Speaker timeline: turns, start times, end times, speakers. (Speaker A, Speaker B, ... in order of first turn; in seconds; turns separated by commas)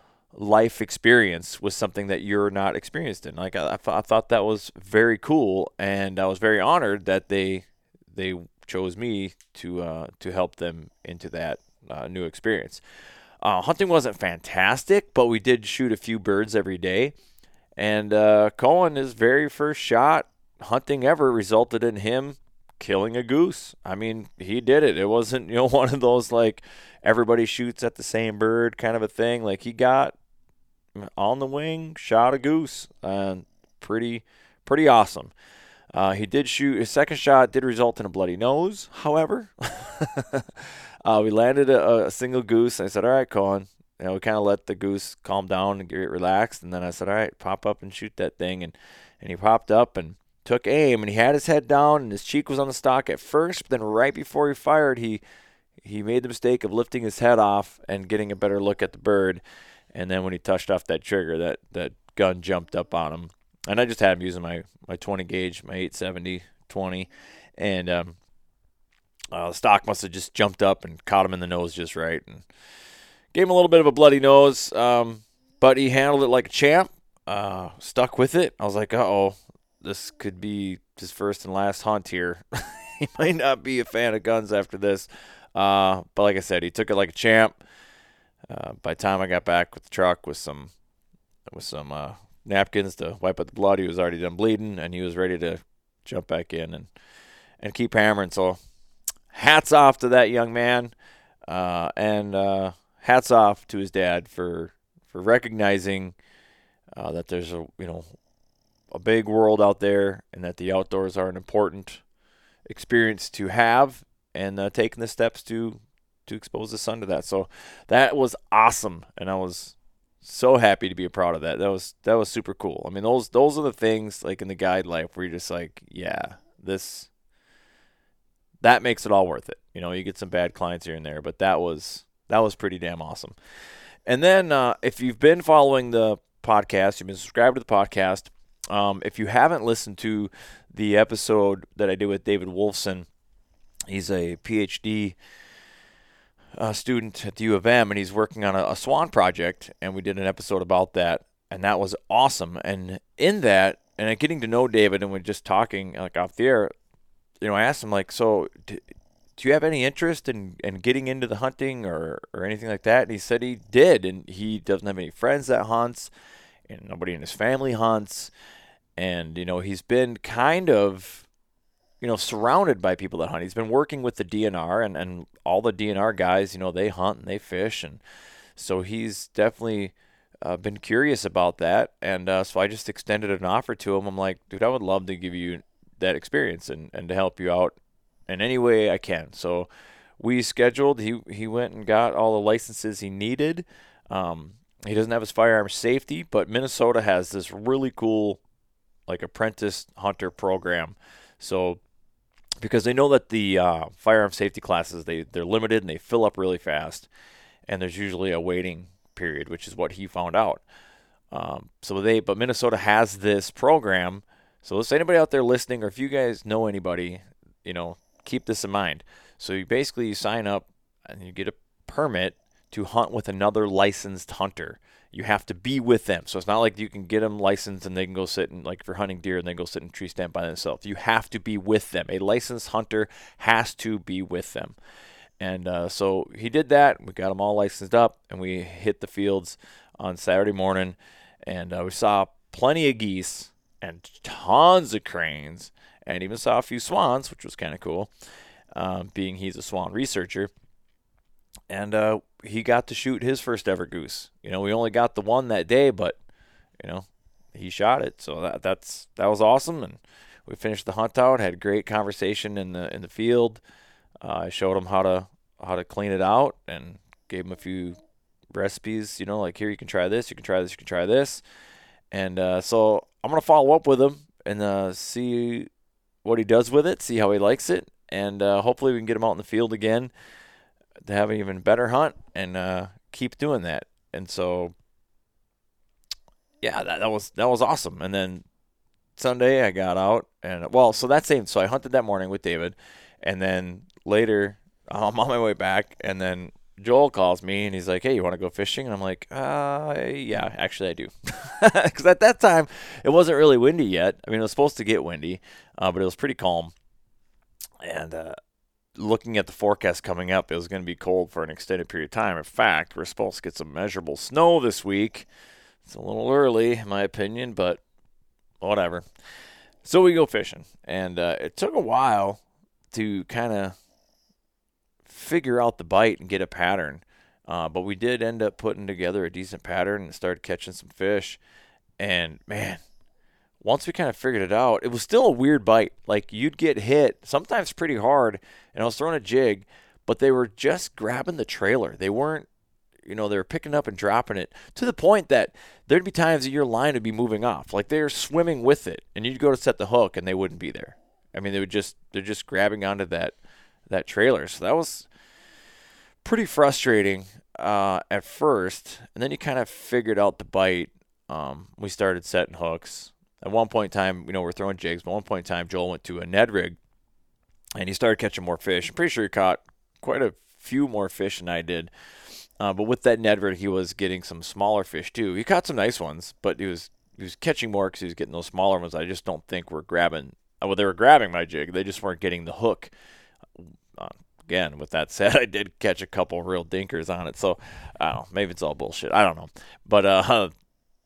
Speaker A: 0.3-12.8, Speaker A: 13.4-17.1, Speaker A: 17.8-30.1, Speaker A: 30.9-35.3, Speaker A: 35.9-55.2, Speaker A: 55.8-59.4, Speaker A: 59.9-68.2, Speaker A: 69.3-72.4, Speaker A: 73.3-87.6, Speaker A: 88.5-90.7, Speaker A: 91.5-96.9, Speaker A: 97.6-98.6, Speaker A: 99.3-100.9, Speaker A: 101.5-106.1, Speaker A: 106.9-108.1, Speaker A: 108.9-112.0, Speaker A: 112.7-127.1, Speaker A: 128.6-133.3, Speaker A: 134.1-143.1, Speaker A: 143.9-145.2, Speaker A: 146.6-156.7, Speaker A: 157.4-158.8, Speaker A: 159.4-166.1, Speaker A: 166.7-168.3, Speaker A: 169.0-171.2, Speaker A: 172.0-178.0, Speaker A: 178.6-187.8, Speaker A: 188.3-198.4, Speaker A: 199.1-201.8, Speaker A: 202.6-207.1, Speaker A: 207.7-210.6, Speaker A: 211.3-234.8, Speaker A: 235.4-248.1, Speaker A: 248.7-250.5, Speaker A: 251.7-256.2, Speaker A: 256.8-263.6, Speaker A: 264.2-268.0, Speaker A: 268.5-271.4, Speaker A: 272.1-275.7, Speaker A: 276.2-280.1, Speaker A: 281.0-284.7, Speaker A: 286.6-288.4, Speaker A: 289.1-306.7, Speaker A: 307.8-308.4, Speaker A: 308.9-315.3, Speaker A: 315.8-317.8, Speaker A: 318.6-319.1, Speaker A: 319.8-322.4, Speaker A: 322.9-323.8, Speaker A: 325.0-331.4, Speaker A: 332.0-332.8, Speaker A: 333.6-342.5, Speaker A: 343.0-353.3, Speaker A: 353.9-355.1, Speaker A: 356.2-366.8, Speaker A: 367.8-371.9, Speaker A: 372.6-382.9, Speaker A: 383.6-390.5